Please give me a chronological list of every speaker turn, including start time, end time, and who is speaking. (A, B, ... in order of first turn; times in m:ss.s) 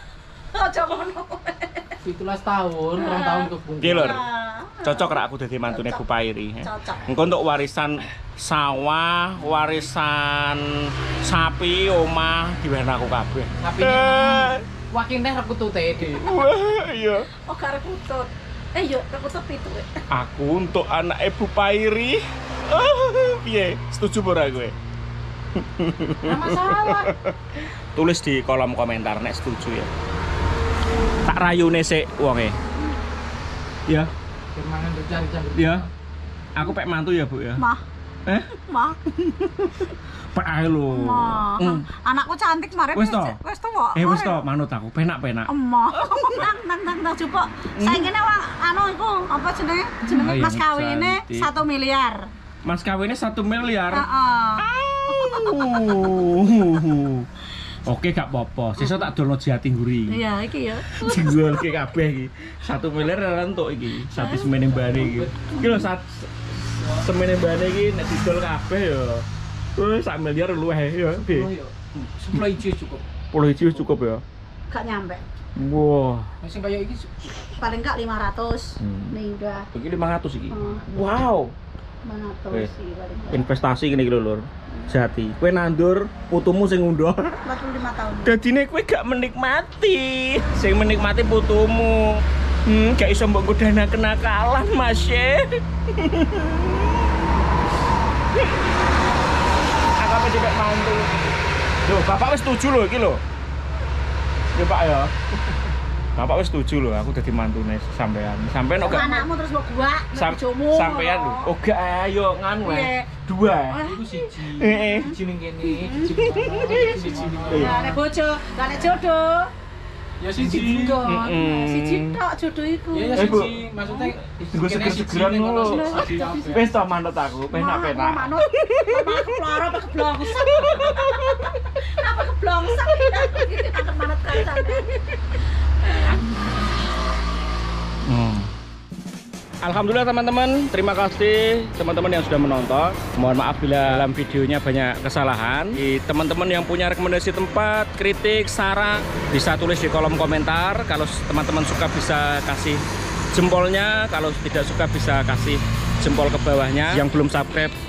0:00.5-0:02.0 A
0:02.0-0:04.2 B
0:03.0-0:06.0 A
0:03.8-0:04.2 C
0:04.8-0:14.6 C
0:06.6-0:07.1 A
0:13.6-0:16.3 B
0:16.1-0:17.3 C
0:17.3-0:20.0 A
0:20.1-0:24.7 C
0:25.5-0:29.9 C
0:26.2-0:26.7 B
0:26.3-0:27.1 A
0:31.2-0:32.5 C
0:34.5-0:35.9 B
0:35.5-0:35.9 C
0:36.6-0:37.6 C
0:37.6-0:37.8 A
0:38.2-0:38.6 C
0:38.5-0:39.0 A
0:39.2-0:41.9 C
0:40.9-0:44.4 A
0:42.9-0:43.4 C
0:43.9-0:46.5 C
0:45.5-0:52.3 A
0:47.7-0:48.1 C
0:50.1-0:51.5 C
0:52.6-0:54.0 C
0:53.9-0:56.2 A
0:54.6-0:57.3 C
0:57.8-1:00.2 C
0:58.8-0:59.1 A
1:00.1-1:01.8 A
1:00.8-1:09.2 C
1:04.1-1:04.6 A
1:04.5-1:05.7 B
1:09.8-1:11.5 C
1:11.1-1:13.0 B
1:13.3-1:14.2 C
1:14.7-1:15.2 A
1:15.6-1:16.3 C
1:16.4-1:17.5 B
1:17.5-1:19.7 A
1:18.8-1:19.1 C
1:19.7-1:21.5 C
1:20.5-1:20.8 A
1:22.0-1:23.4 A
1:23.3-1:27.4 C
1:27.4-1:28.4 A
1:28.2-1:37.0 C
1:40.0-1:41.1 C
1:41.8-1:43.2 C
1:44.5-1:45.1 C
1:46.2-1:49.2 C
1:48.8-1:51.5 A
1:50.1-1:53.8 C
1:52.6-1:53.1 A
1:53.7-1:59.5 A
1:53.8-1:58.0 B
1:54.5-1:55.1 C
1:56.3-1:57.8 C
2:00.2-2:01.0 B
2:00.4-2:04.2 A
2:01.0-2:02.2 C
2:02.9-2:06.7 B
2:03.1-2:03.6 C
2:04.4-2:11.6 C
2:05.6-2:06.6 A
2:07.5-2:15.1 A
2:12.8-2:13.3 C
2:18.0-2:18.5 C
2:19.6-2:37.7 C